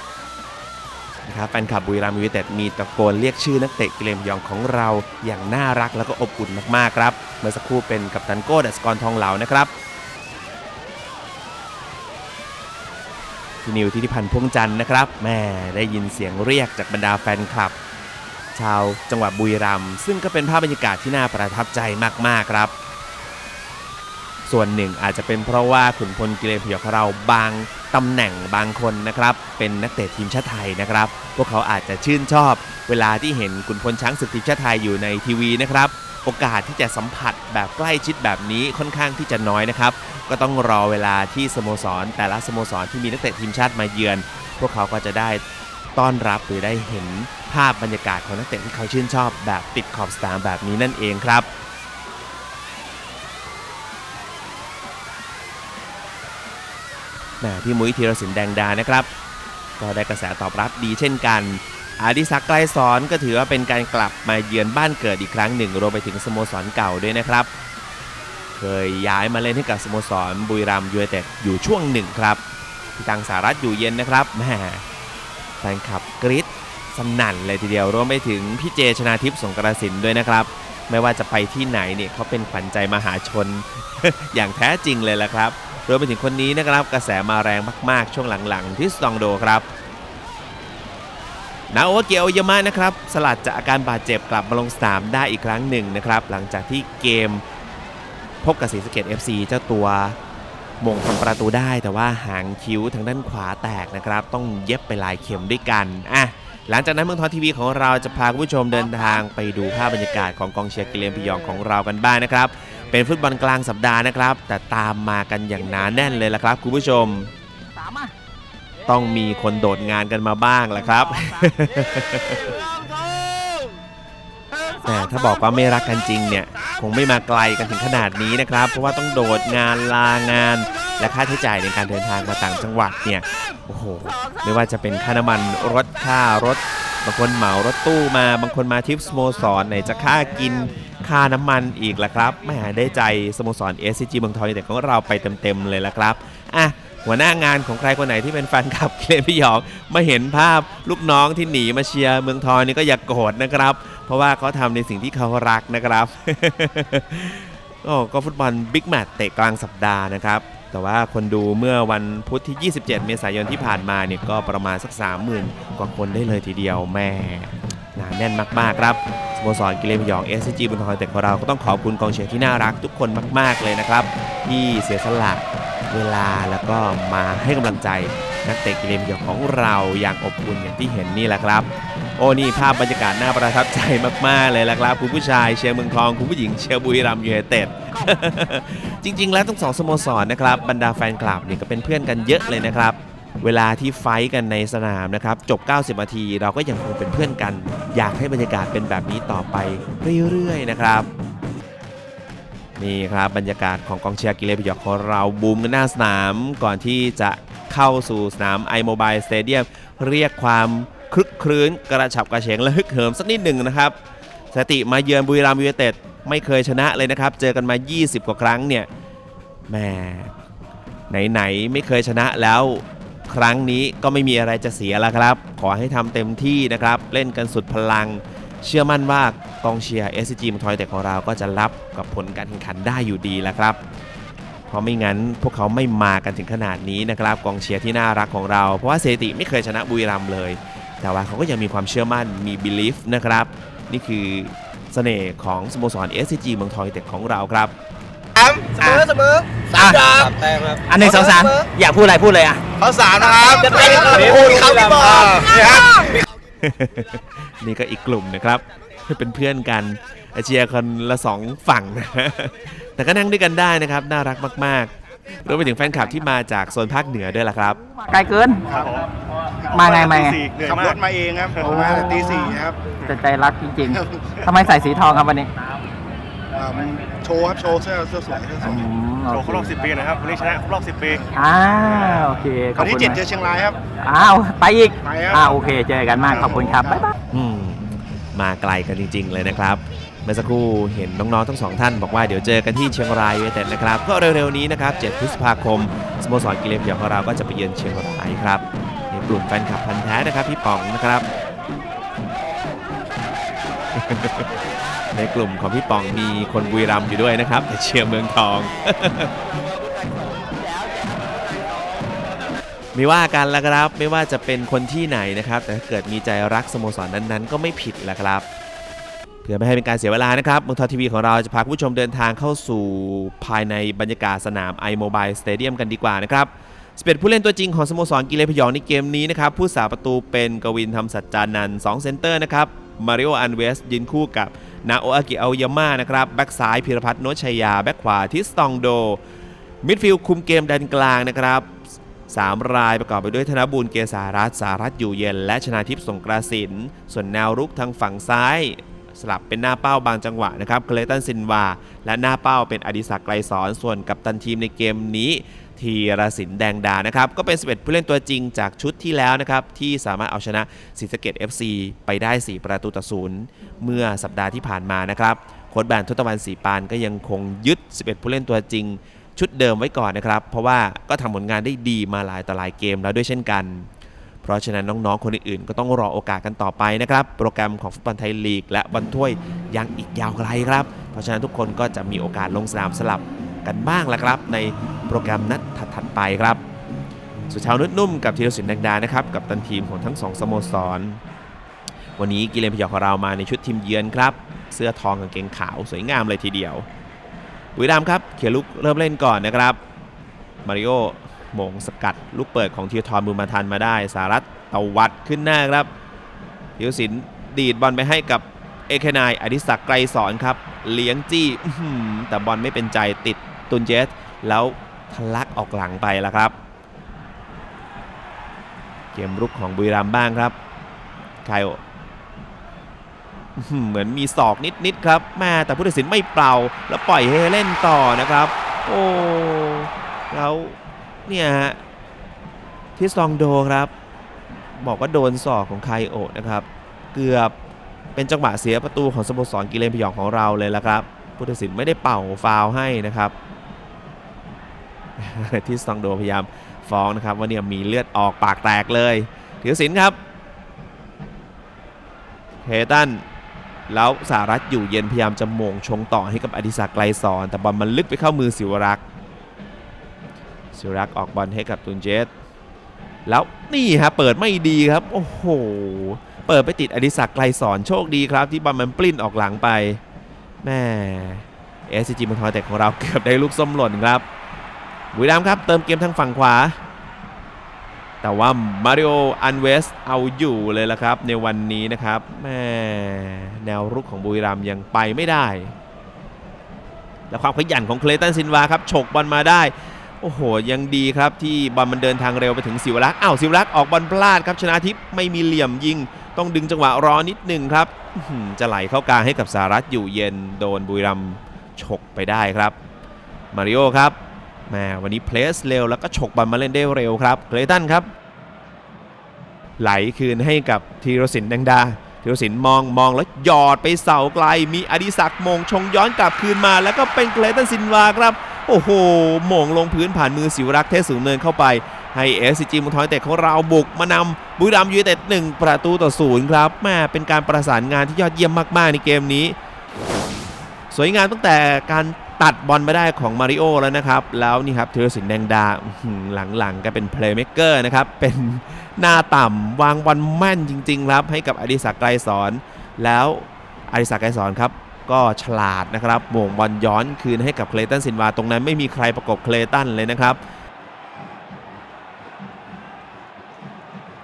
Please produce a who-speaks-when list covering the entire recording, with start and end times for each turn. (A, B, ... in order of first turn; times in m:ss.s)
0:01.3-0:09.7 A
0:13.6-0:17.8 A
0:18.6-0:22.7 A
0:24.5-0:45.4 A
0:46.0-0:51.5 A
0:57.4-0:59.1 A
0:59.8-1:07.5 A
1:08.6-1:12.4 A
1:13.0-1:14.8 A
1:15.6-1:29.7 A
1:31.7-1:37.4 A
1:38.4-1:40.2 A
1:40.8-1:57.3 A
1:57.8-1:58.1 B
1:58.9-2:02.6 A
2:04.8-3:21.1 A
3:22.8-3:34.0 A
3:34.5-3:38.9 A
3:39.7-3:40.3 A
3:41.1-3:53.8 A
3:54.7-4:07.7 A
4:08.8-4:12.6 B
4:12.8-4:16.1 C
4:14.0-4:14.7 B
4:16.6-4:24.9 A
4:25.4-4:27.8 A
4:28.1-4:28.7 B
4:28.7-4:29.0 C
4:29.7-4:30.5 B
4:29.9-4:31.0 D
4:30.6-4:32.8 C
4:31.6-4:35.5 B
4:36.5-4:38.9 C
4:38.6-4:39.8 B
4:39.3-4:41.2 D
4:41.3-4:43.2 B
4:42.8-4:43.8 C
4:44.0-4:47.1 B
4:45.0-4:45.6 C
4:46.3-4:47.1 C
4:47.3-5:01.3 A
5:03.9-5:04.5 A
5:05.1-5:09.3 A
5:12.9-5:18.5 A
5:19.4-5:39.2 A
5:39.8-5:41.8 A
5:42.3-6:13.9 A
6:14.4-6:26.6 A
6:27.5-6:31.2 A
6:32.2-6:36.9 A
6:37.8-6:39.8 A
6:40.6-6:45.9 A
6:46.8-6:56.6 A
6:59.1-7:00.6 A
7:01.4-7:01.8 A
7:03.6-7:11.8 A
7:13.0-7:13.9 A
7:14.7-7:17.5 A
7:18.2-7:23.4 A
7:25.2-7:30.2 A
7:32.6-7:33.2 A
7:33.9-7:39.0 A
7:40.7-7:42.3 A
7:43.3-7:50.0 A
7:50.6-7:54.2 A
7:55.1-7:56.8 A
7:58.2-8:05.8 A
8:07.3-8:22.8 A
8:23.5-8:24.2 A
8:24.7-8:28.1 A
8:29.8-8:49.6 A
8:50.9-9:10.4 A